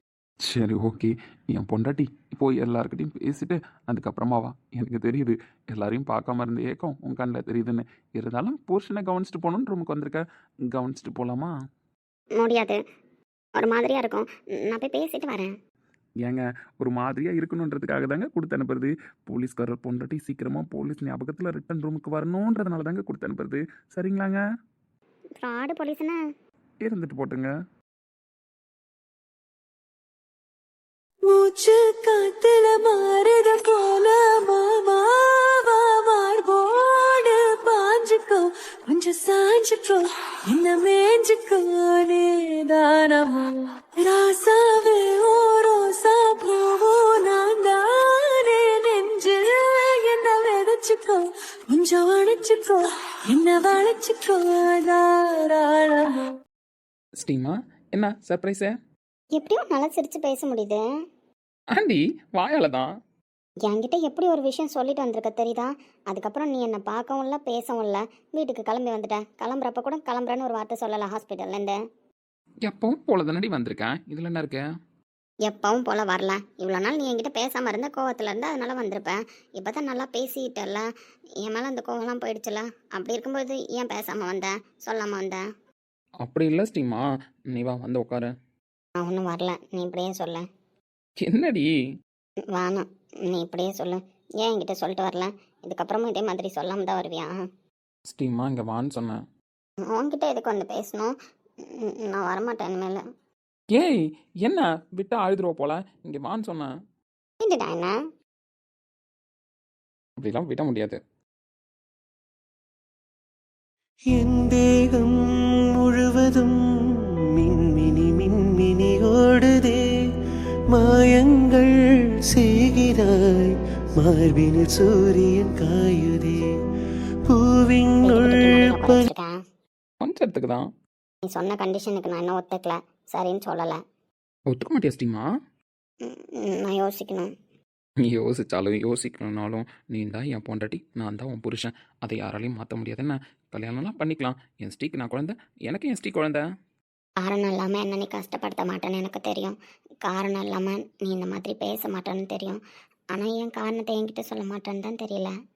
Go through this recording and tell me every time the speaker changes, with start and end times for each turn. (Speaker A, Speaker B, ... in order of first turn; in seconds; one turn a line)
Speaker A: 0.4-11.5
Speaker B: 12.4-12.8
Speaker B: 13.6-15.5
Speaker A: 16.2-24.4
Speaker B: 25.4-26.1
Speaker A: 26.8-27.5
Speaker C: 31.3-56.3
Speaker A: 57.2-58.7
Speaker B: 59.3-60.8
Speaker A: 61.7-62.9
Speaker B: 63.6-71.8
Speaker A: 72.7-74.6
Speaker B: 75.5-80.9
Speaker B: 81.4-85.4
Speaker A: 86.2-88.3
Speaker B: 89.0-90.4
Speaker A: 91.2-91.7
Speaker B: 92.5-97.3
Speaker A: 98.1-99.2
Speaker B: 99.9-103.0
Speaker A: 103.7-106.7
Speaker B: 107.4-107.9
Speaker A: 110.2-111.0
Speaker D: 114.1-115.1
Speaker D: 115.8-116.5
Speaker D: 117.4-119.8
Speaker D: 120.7-121.7
Speaker D: 122.3-126.4
Speaker D: 127.3-129.0
Speaker B: 128.0-129.3
Speaker A: 130.0-130.6
Speaker B: 131.3-133.8
Speaker A: 134.5-135.2
Speaker B: 136.0-137.3
Speaker A: 138.0-146.4
Speaker B: 147.2-152.6
Speaker B: 153.1-155.3